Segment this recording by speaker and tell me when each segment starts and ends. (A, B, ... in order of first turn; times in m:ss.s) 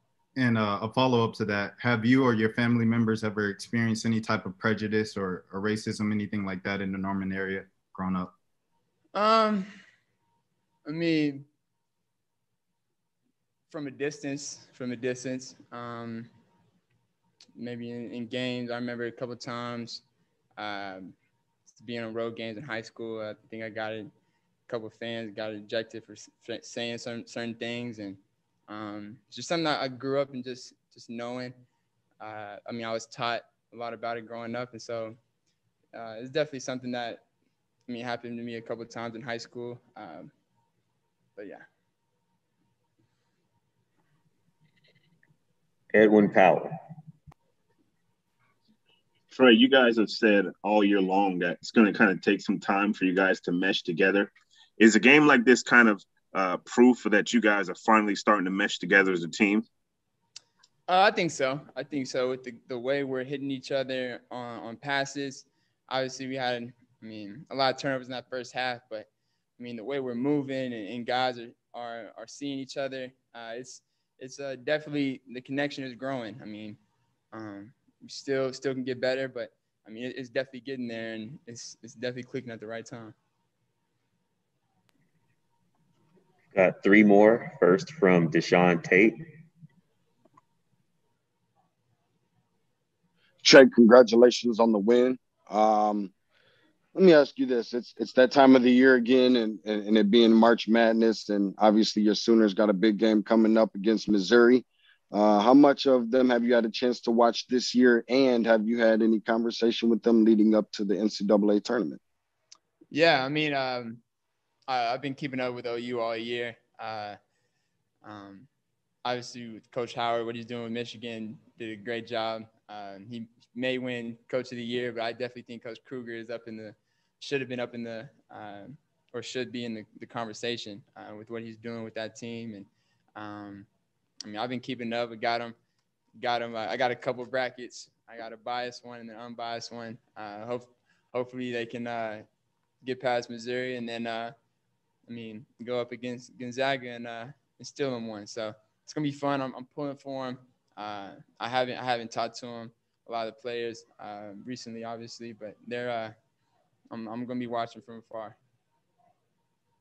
0:00.4-0:08.3 A
0:09.1-0:09.7 B
0:10.8-0:11.4 B
0:13.7-0:16.3 B
0:17.5-0:20.0 B
0:20.6-0:21.1 B
0:21.7-0:24.1 B
0:24.7-0:31.6 B
0:32.2-0:35.2 B
0:35.9-0:37.2 B
0:37.9-0:40.3 B
0:41.4-0:41.6 B
0:45.9-0:46.7 C
0:49.3-0:59.6 D
1:00.9-1:16.8 B
1:17.3-1:23.1 B
1:26.5-1:29.2 C
1:33.4-1:36.1 E
1:36.9-1:52.0 E
1:52.9-1:54.0 B
1:54.7-1:57.2 B
1:58.0-1:58.5 B
1:59.0-2:13.7 B
2:14.2-2:15.5 B
2:16.2-2:22.2 B
2:22.8-2:24.3 B
2:25.1-2:36.1 B
2:36.9-2:38.4 B